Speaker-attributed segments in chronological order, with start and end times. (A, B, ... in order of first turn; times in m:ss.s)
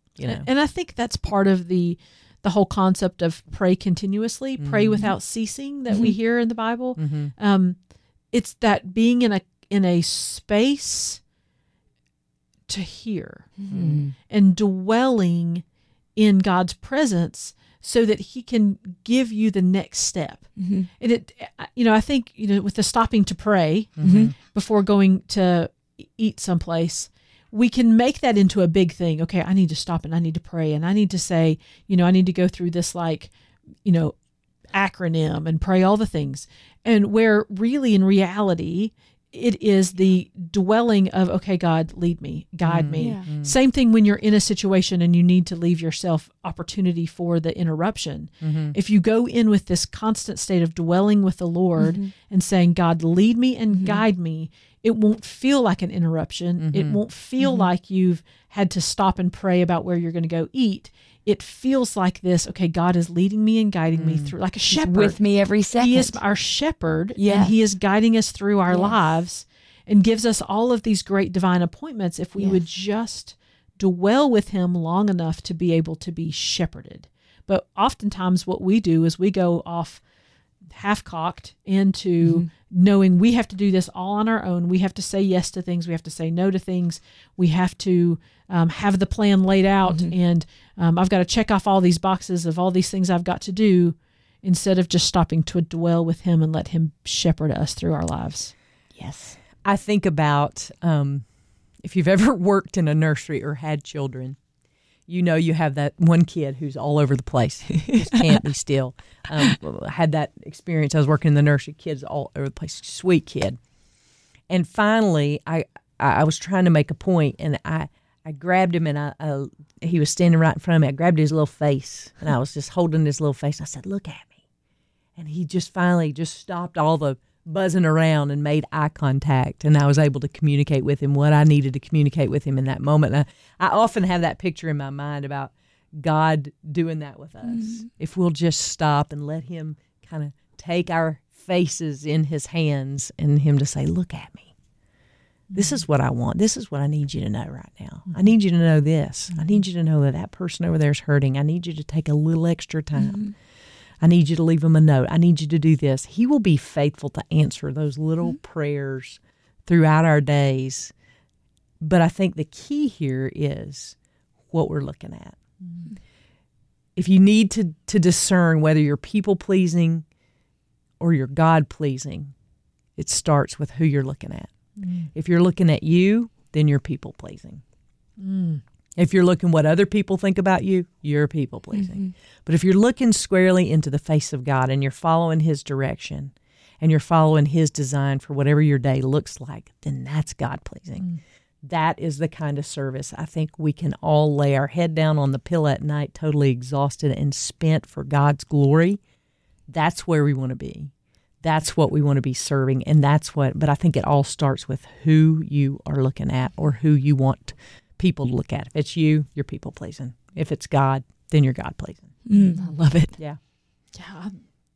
0:00.2-0:00.5 A
0:00.2-0:07.8 B
0:04.6-0:05.1 A
0:07.0-0:07.3 A
0:08.3-0:11.2 B
0:12.7-0:13.5 B
0:13.6-0:14.1 C
0:13.7-0:14.0 A
0:14.3-0:15.6 B
0:16.2-0:20.5 B
0:20.6-0:20.9 C
0:21.0-0:33.3 B
0:24.0-0:24.3 A
0:24.0-0:24.3 C
0:33.8-0:34.2 B
0:34.7-1:05.2 B
0:42.6-0:43.6 A
0:42.9-0:43.2 C
0:48.4-0:48.7 A
0:51.8-0:52.1 C
0:53.7-0:54.0 C
0:56.6-0:57.0 A
0:57.4-0:57.7 C
1:03.9-1:04.3 A
1:04.6-1:06.2 C
1:05.8-1:20.0 B
1:07.2-1:07.6 C
1:08.7-1:08.9 C
1:20.7-1:38.5 B
1:29.8-1:30.1 C
1:39.0-1:39.4 C
1:39.6-1:41.2 A
1:41.8-1:44.4 A
1:45.1-1:53.6 A
1:47.8-1:48.4 C
1:54.5-2:04.4 A
2:05.2-2:24.5 A
2:17.4-2:17.8 C
2:25.5-2:25.8 B
2:25.5-2:33.2 A
2:32.9-2:33.3 C
2:34.0-2:40.9 A
2:41.8-2:44.0 A
2:44.5-2:45.4 A
2:47.0-2:50.0 A
2:51.0-2:52.3 A
2:53.0-2:54.5 A
2:54.8-2:55.1 B
2:55.1-2:57.6 A
2:58.2-2:58.6 B
2:59.0-3:11.1 A
3:01.8-3:02.1 C
3:11.6-3:19.0 A
3:19.7-3:20.9 A
3:21.4-3:32.1 A
3:32.2-3:33.1 C
3:33.9-3:34.4 B